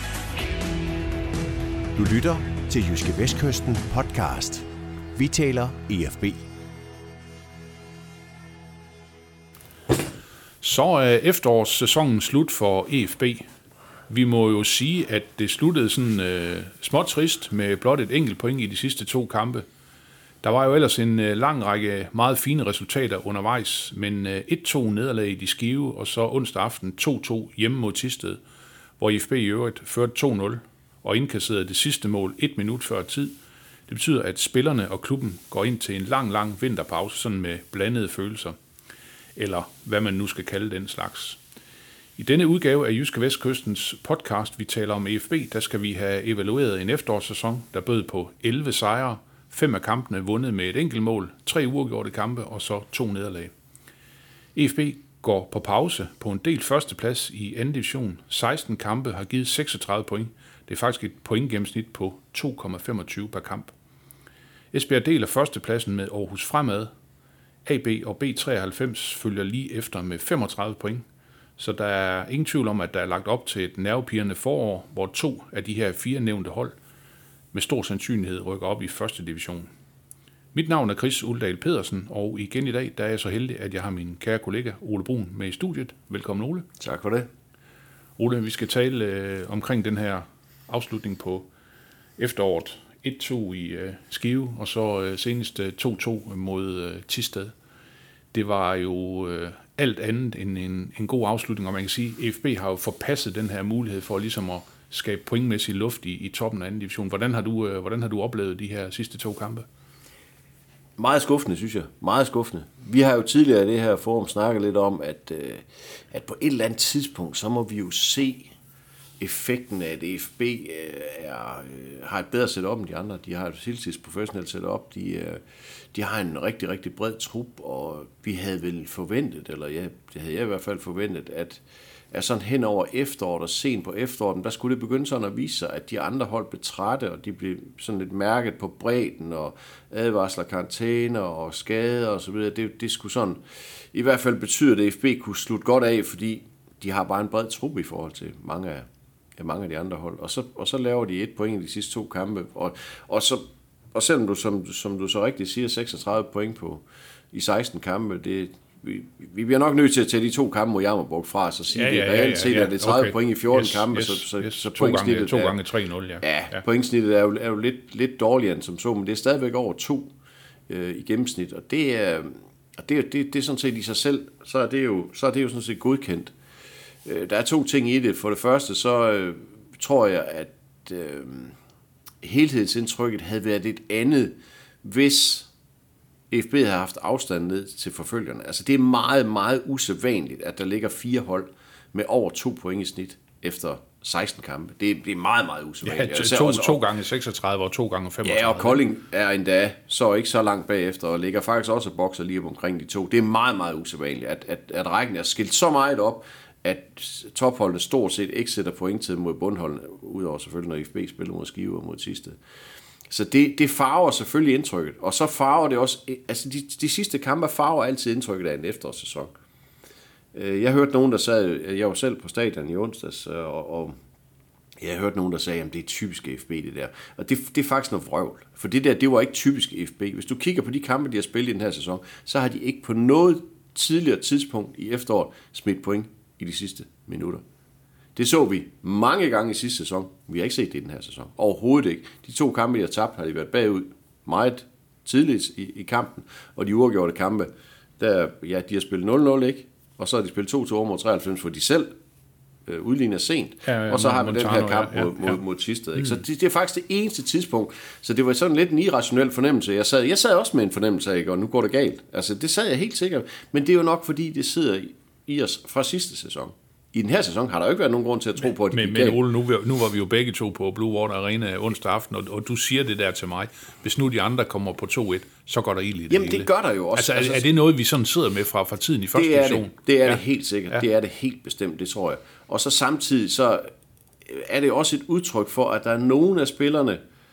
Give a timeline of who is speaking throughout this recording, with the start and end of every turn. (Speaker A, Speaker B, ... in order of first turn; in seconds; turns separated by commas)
Speaker A: 1.9-6.4, Speaker B: 10.6-13.4, Speaker B: 14.1-19.6, Speaker B: 20.4-28.4, Speaker B: 29.0-33.3, Speaker B: 33.9-38.5, Speaker B: 39.4-41.4, Speaker B: 42.2-53.5, Speaker B: 54.5-63.7, Speaker B: 64.7-66.9, Speaker B: 67.7-71.0, Speaker B: 71.6-76.7, Speaker B: 77.5-79.7, Speaker B: 80.5-86.7, Speaker C: 86.8-87.3, Speaker B: 88.2-91.5, Speaker B: 92.2-97.5, Speaker B: 98.3-109.7, Speaker C: 111.0-118.5, Speaker C: 119.2-125.4, Speaker C: 125.9-143.4, Speaker C: 143.9-148.8, Speaker C: 149.4-165.5, Speaker B: 161.7-166.6, Speaker C: 166.2-170.1, Speaker C: 170.7-176.3, Speaker C: 177.0-181.6, Speaker C: 182.2-185.5, Speaker C: 186.3-196.8, Speaker B: 195.8-198.8, Speaker C: 198.2-212.4, Speaker C: 213.1-219.3, Speaker C: 220.3-223.9, Speaker C: 224.8-237.4, Speaker C: 238.2-251.9, Speaker C: 252.7-269.2, Speaker B: 253.7-255.4, Speaker B: 268.6-280.2, Speaker C: 276.1-277.4, Speaker C: 279.1-283.7, Speaker C: 284.2-287.0